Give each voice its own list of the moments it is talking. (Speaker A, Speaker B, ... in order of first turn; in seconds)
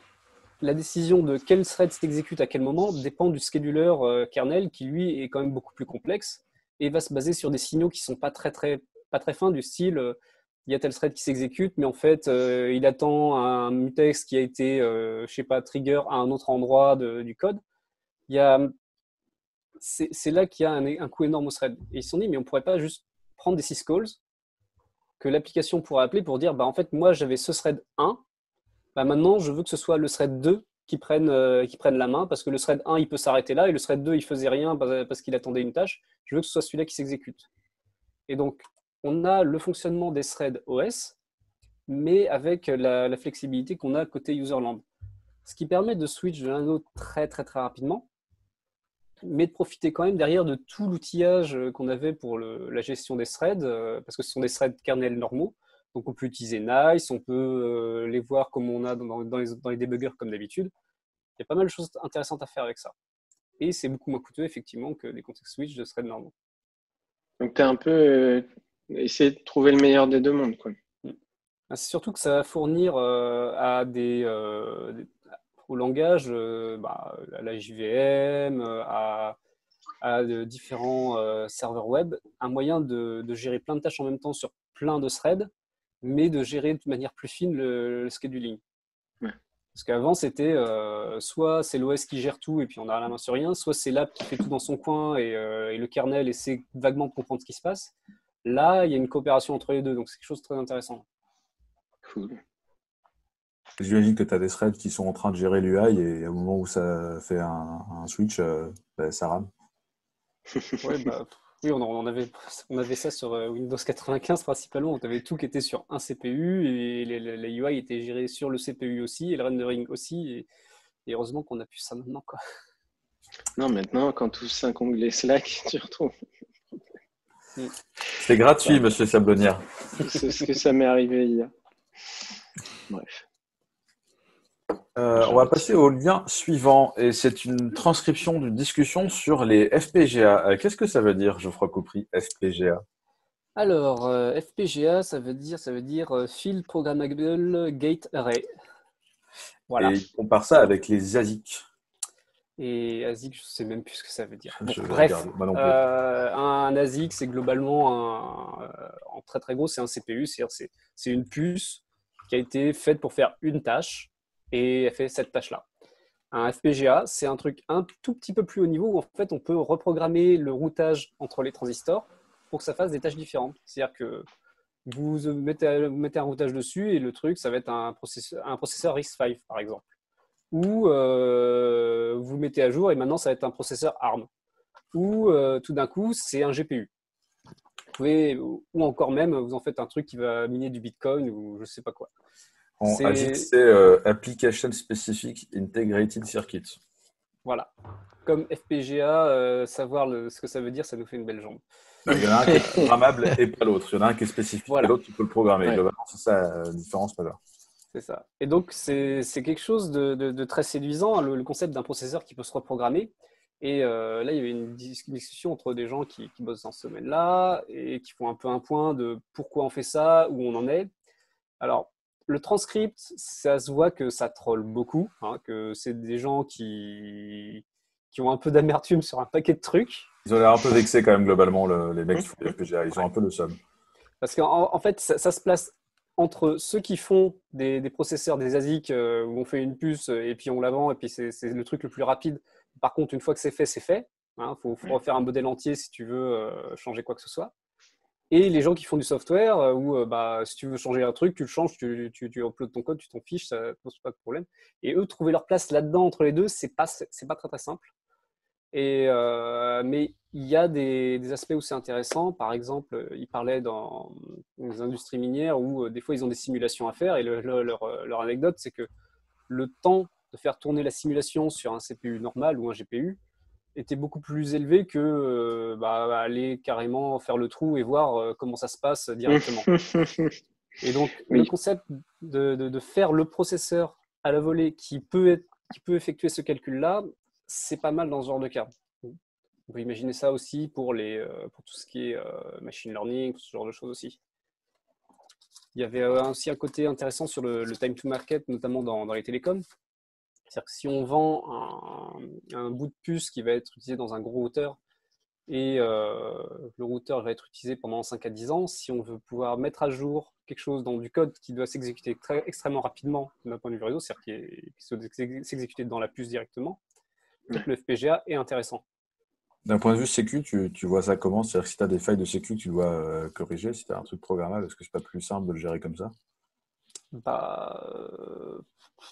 Speaker A: 0.6-17.6, 18.3-18.7, 19.8-24.2, 25.2-28.2, 28.9-37.5, 38.3-41.1, 41.9-44.8, 45.4-48.0, 49.2-60.7, 61.4-62.9, 63.6-66.3, 71.7-75.1, 75.6-79.3, 80.0-85.5, 86.0-88.6, 89.7-97.9, 98.4-101.0, 110.8-120.5, 121.0-122.4, 143.6-148.5, 149.7-149.9, 152.6-165.6, 166.3-174.2, 174.8-179.8, 180.5-184.3, 184.9-186.9, 187.9-192.1, 192.9-193.5, 197.4-197.7, 198.2-201.6, 207.9-220.9, 221.6-230.1, 234.2-247.5, 248.3-257.9, 258.7-268.9, 269.5-273.2, 273.7-279.7, 280.8-289.1, 289.7-294.2, 295.7-299.6, 300.5-304.8, 305.5-316.8, 317.5-318.8, 327.1-328.6
Speaker B: 67.4-70.8, 102.0-102.4, 123.6-126.1, 130.0-131.5, 132.9-133.2, 135.2-135.7, 279.3-280.3
Speaker C: 103.8-109.5, 128.2-130.0, 134.9-142.8, 149.8-151.7, 154.6-155.8, 192.8-196.8, 202.1-207.4, 230.2-233.6, 319.6-326.1